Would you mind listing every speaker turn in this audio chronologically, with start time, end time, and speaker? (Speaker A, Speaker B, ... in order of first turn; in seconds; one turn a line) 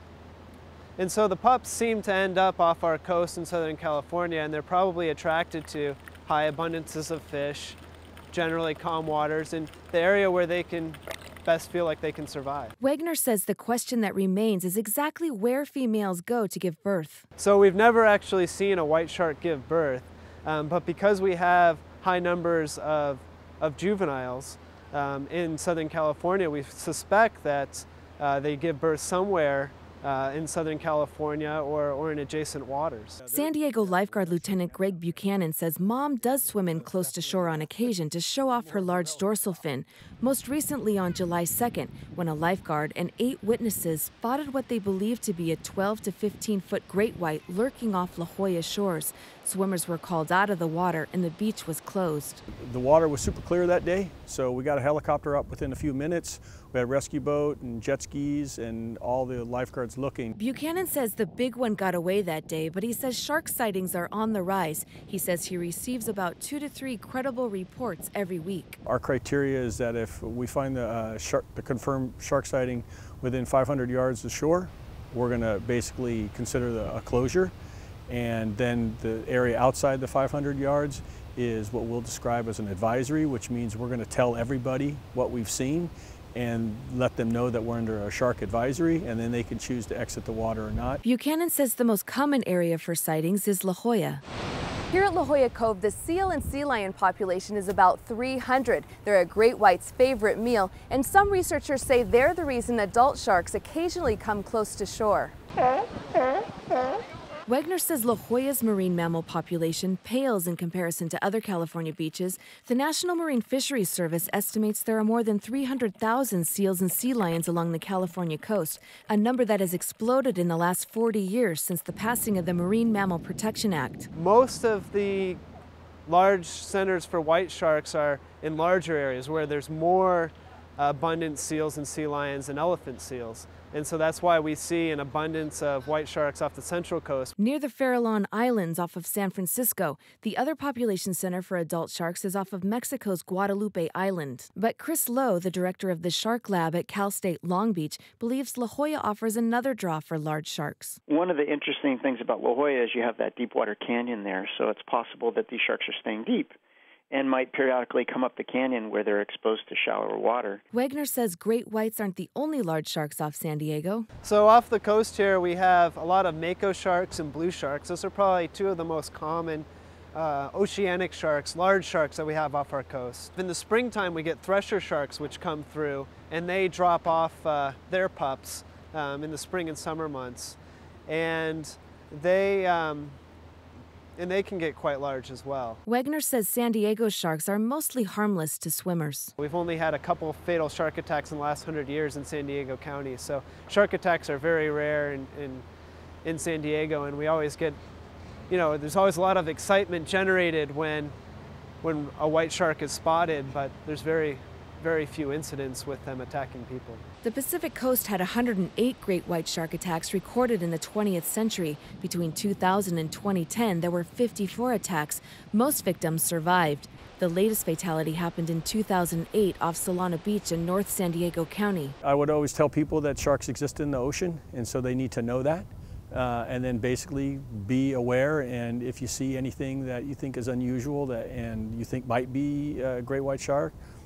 Speaker A: 1.0-7.8
Speaker A: 8.3-12.7
Speaker B: 12.8-17.2
Speaker A: 17.4-33.2
Speaker C: 33.2-35.1
Speaker B: 33.3-52.4
Speaker C: 36.3-37.7
Speaker C: 38.6-39.2
Speaker C: 52.6-60.4
Speaker B: 60.4-68.8
Speaker C: 68.8-77.5
Speaker C: 78.1-91.0
Speaker B: 91.0-94.2
Speaker B: 94.9-105.3
Speaker B: 107.5-124.1
Speaker A: 124.1-125.4
Speaker A: 126.0-137.3
Speaker B: 137.4-151.0
Speaker D: 151.1-156.5
Speaker D: 157.1-160.6
Speaker B: 160.7-164.1
Speaker A: 164.2-183.2
Speaker A: 184.2-185.8
Speaker B: 185.8-189.3
Speaker A: 189.4-195.7
Speaker A: 196.2-197.8
Speaker A: 198.5-201.1
Speaker A: 201.8-207.0
Speaker B: 207.2-221.9
Speaker C: 222.0-233.7